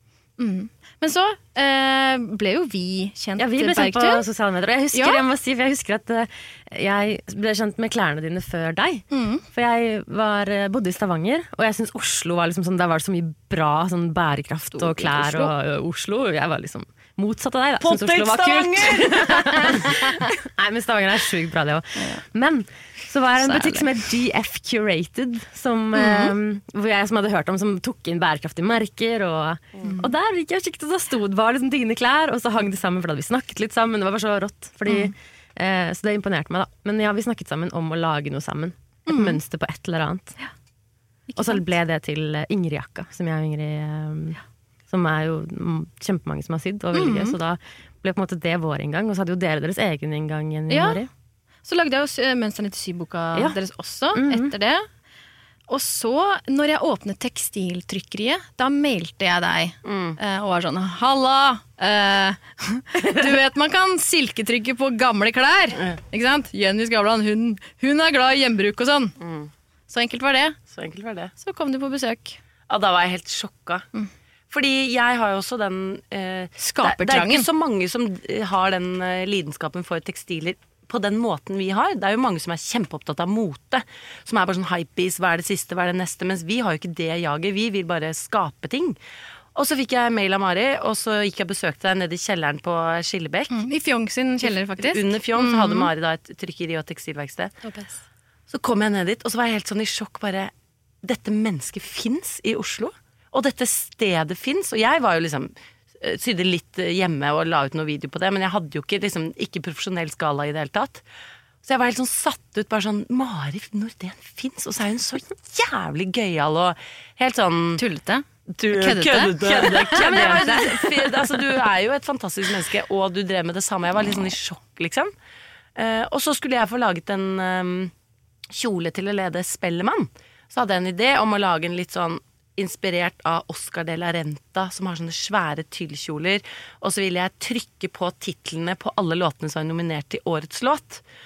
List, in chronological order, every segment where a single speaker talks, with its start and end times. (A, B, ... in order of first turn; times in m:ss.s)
0:00.4-0:04.2 A
0:03.4-0:40.4 B
0:04.9-0:05.2 A
0:09.1-0:09.4 A
0:15.0-0:15.5 A
0:17.8-0:19.3 C
0:23.4-0:23.9 A
0:25.9-0:26.3 A
0:29.8-0:30.1 A
0:34.9-0:35.1 A
0:39.1-0:39.4 A
0:41.3-0:41.7 A
0:41.4-0:44.4 B
0:44.9-0:51.1 B
0:46.9-0:47.4 A
0:50.7-0:51.0 A
0:51.6-0:54.9 A
0:54.1-0:54.5 B
0:55.7-1:09.1 A
0:59.8-1:00.2 C
1:09.2-1:09.5 C
1:09.9-1:10.6 A
1:10.7-1:11.3 C
1:11.4-1:12.4 A
1:12.7-1:13.9 C
1:14.5-1:29.0 C
1:16.6-1:17.4 A
1:29.5-1:33.5 C
1:33.5-1:35.9 A
1:34.4-1:37.5 C
1:37.6-1:38.0 A
1:38.5-1:40.5 C
1:41.0-1:51.0 C
1:51.6-1:57.8 C
1:57.8-1:59.3 A
1:58.6-2:05.1 C
1:59.4-2:01.3 B
2:05.8-2:07.9 C
2:08.5-2:21.0 C